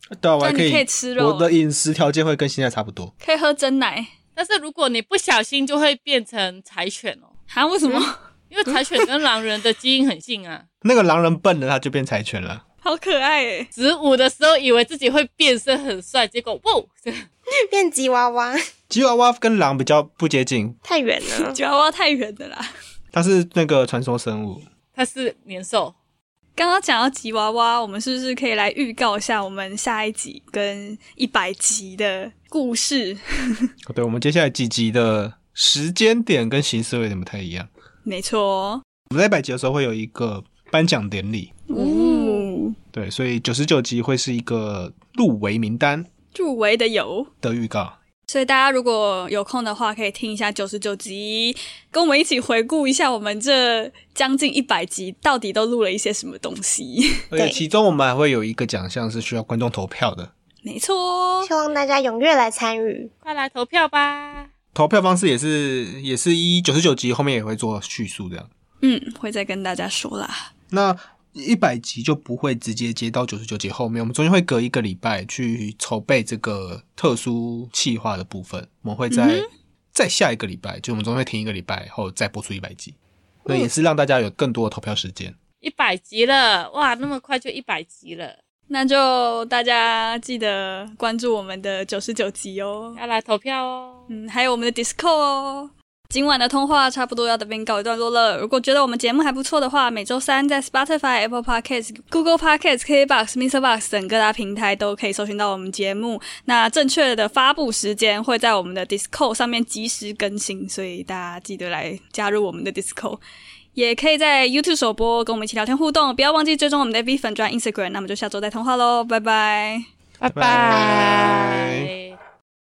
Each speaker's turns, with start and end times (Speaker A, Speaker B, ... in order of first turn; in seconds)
Speaker A: 0.1-3.1, 10.8-12.6, 18.9-20.8, 23.1-24.7, 33.9-37.7, 39.1-41.6, 42.9-46.1, 47.4-48.0, 57.3-60.3, 64.7-68.5, 70.7-85.4, 120.3-121.9
Speaker B: 0.4-1.5, 3.2-4.1, 7.5-8.2, 12.8-13.7, 21.3-22.7, 26.6-33.7, 38.0-38.8, 41.7-42.8, 46.3-47.3, 48.3-57.2, 60.6-61.5, 68.8-70.5, 79.1-79.5, 88.7-93.0, 94.1-113.2, 113.7-119.9
Speaker C: 4.4-7.3, 8.5-10.6, 13.7-17.2, 24.9-25.9, 41.7-42.4, 63.2-64.5, 85.6-88.4, 93.0-94.1, 120.2-122.2
Speaker D: 17.6-18.6, 20.8-21.6, 61.4-63.1